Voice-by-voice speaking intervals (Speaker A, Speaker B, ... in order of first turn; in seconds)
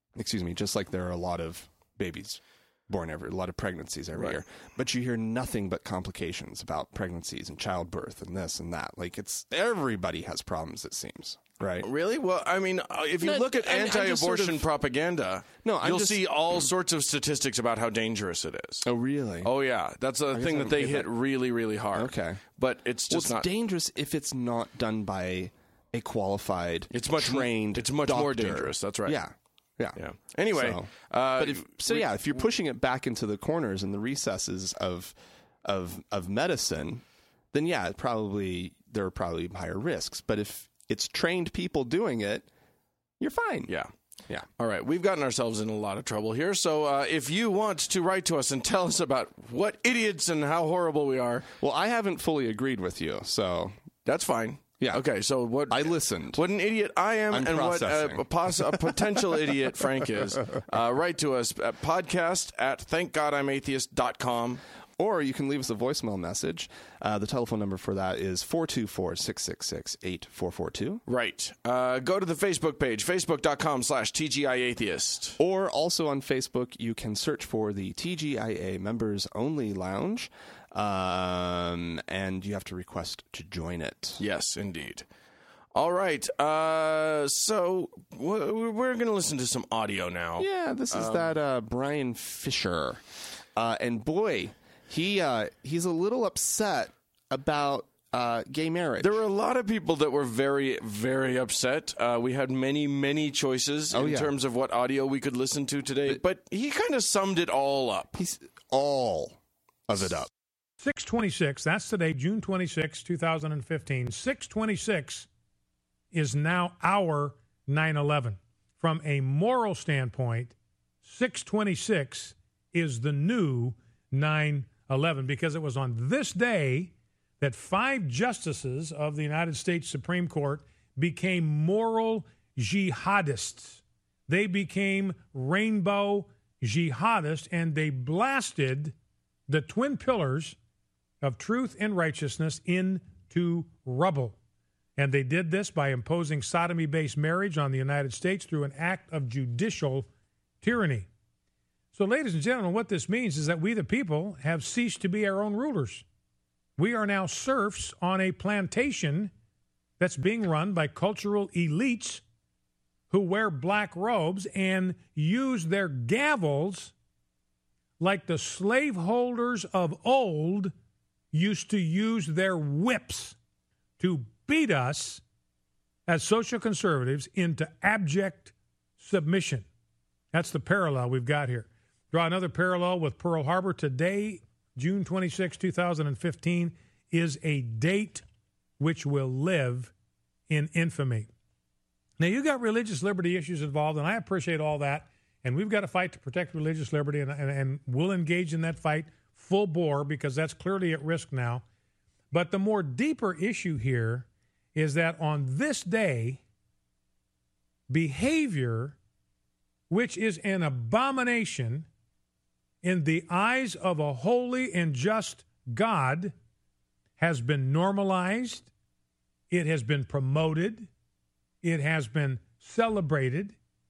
Speaker A: 0.1-11.9, 13.2-14.7, 15.6-16.3, 18.8-19.5, 20.3-21.1, 21.9-22.4, 23.1-30.0, 30.5-42.5, 43.2-43.7, 51.6-53.7, 55.7-56.4, 57.3-58.8, 65.0-71.0, 75.4-84.2, 90.4-93.0, 93.5-99.2, 103.9-104.3, 108.1-110.3
Speaker B: 11.8-18.9, 19.4-23.5, 26.9-29.2, 29.9-32.1, 44.6-51.5, 54.0-64.6, 71.1-75.4, 84.2-85.0, 85.7-91.3, 99.0-108.1
Speaker C: 110.8-115.3, 116.1-138.9, 139.5-140.6, 141.2-144.4, 145.0-150.1, 150.6-151.1, 151.9-156.0, 156.8-159.3, 160.0-162.2, 163.1-166.9, 168.0-170.7, 171.3-173.4, 174.0-175.2, 176.1-179.6, 180.3-188.2, 188.8-189.9, 190.5-191.3, 192.2-201.6, 202.3-206.4, 207.9-208.9, 209.9-211.9, 212.8-216.3, 217.2-218.7, 219.5-220.9, 221.6-223.6